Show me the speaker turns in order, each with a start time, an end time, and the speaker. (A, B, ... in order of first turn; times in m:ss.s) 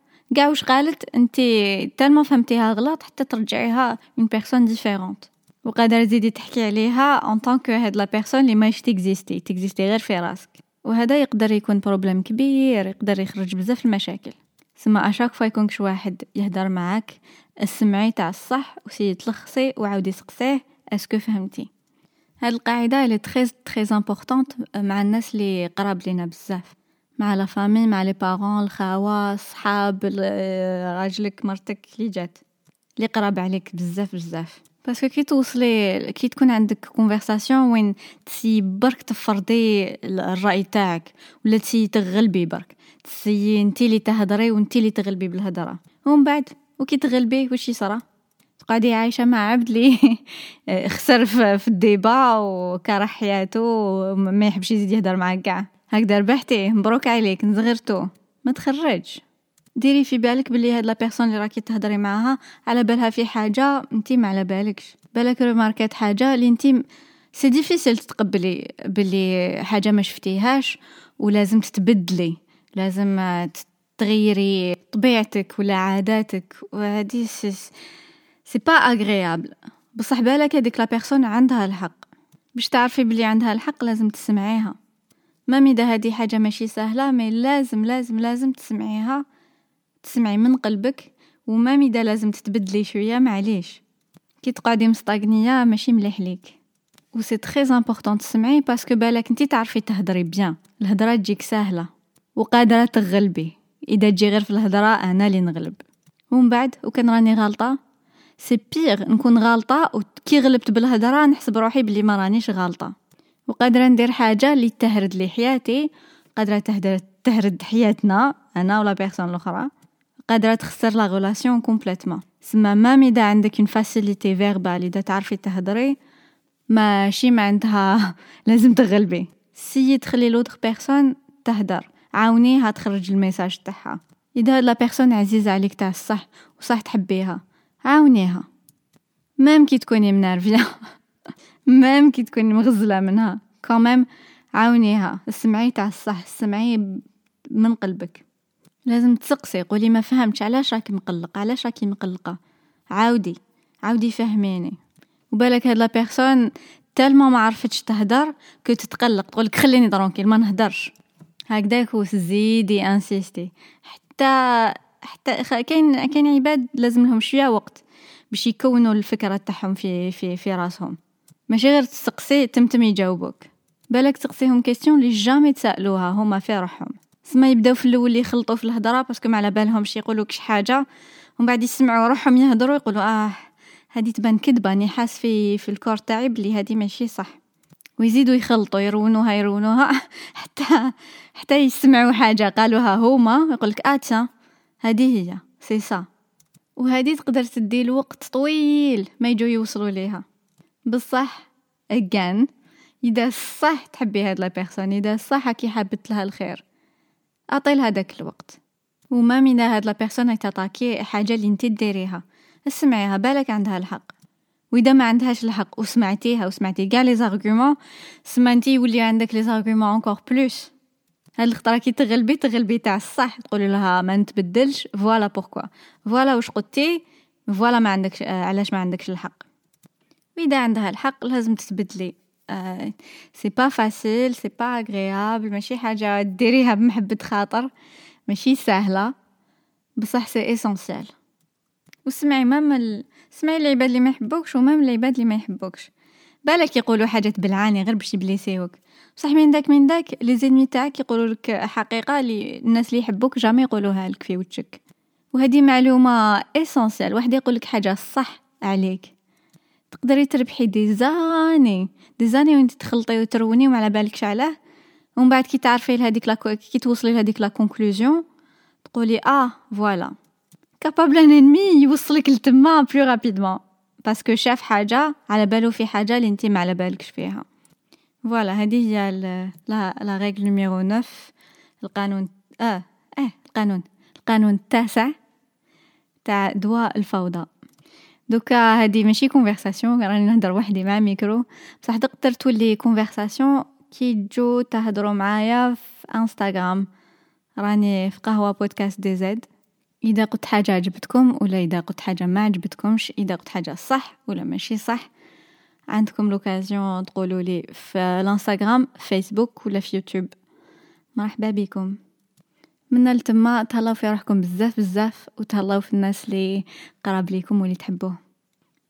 0:00.4-0:21.7 A
0:22.4-0:32.4 A
0:33.0-0:48.0 A
0:48.6-0:59.2 A
0:59.8-1:17.7 A
1:18.5-1:24.8 A
1:25.5-1:29.2 A
1:30.0-1:33.8 A
1:34.4-1:36.6 A
1:37.1-1:47.8 A
1:48.4-1:52.9 A
1:53.5-1:59.7 A
2:00.3-2:06.0 A
2:06.7-2:18.5 A
2:19.4-2:20.8 A
2:21.7-2:27.0 A
2:27.6-2:28.2 A
2:28.9-2:32.4 A
2:32.9-2:34.8 A
2:35.3-2:36.4 A
2:37.0-2:41.0 A
2:41.5-2:51.0 A
2:51.5-3:00.8 A
3:01.4-3:07.4 A
3:08.0-3:14.3 A
3:14.8-3:16.1 A
3:16.8-3:20.2 A
3:20.9-3:22.5 A
3:23.0-3:26.6 A
3:27.5-3:28.6 A
3:29.1-3:34.1 A
3:34.7-3:40.7 A
3:41.4-3:49.5 A
3:50.4-3:57.7 A
3:58.3-3:59.1 A
4:00.0-4:01.1 A
4:02.1-4:05.9 A
4:06.5-4:14.8 A
4:15.3-4:19.1 A
4:19.9-4:24.6 A
4:25.2-4:28.2 A
4:28.8-4:30.2 A
4:30.8-4:37.5 A
4:38.2-4:45.1 A
4:46.2-4:47.5 A
4:48.3-4:56.9 A
4:57.6-4:59.5 A
5:00.0-5:05.1 A
5:05.9-5:10.4 A
5:11.2-5:12.0 A
5:12.9-5:18.2 A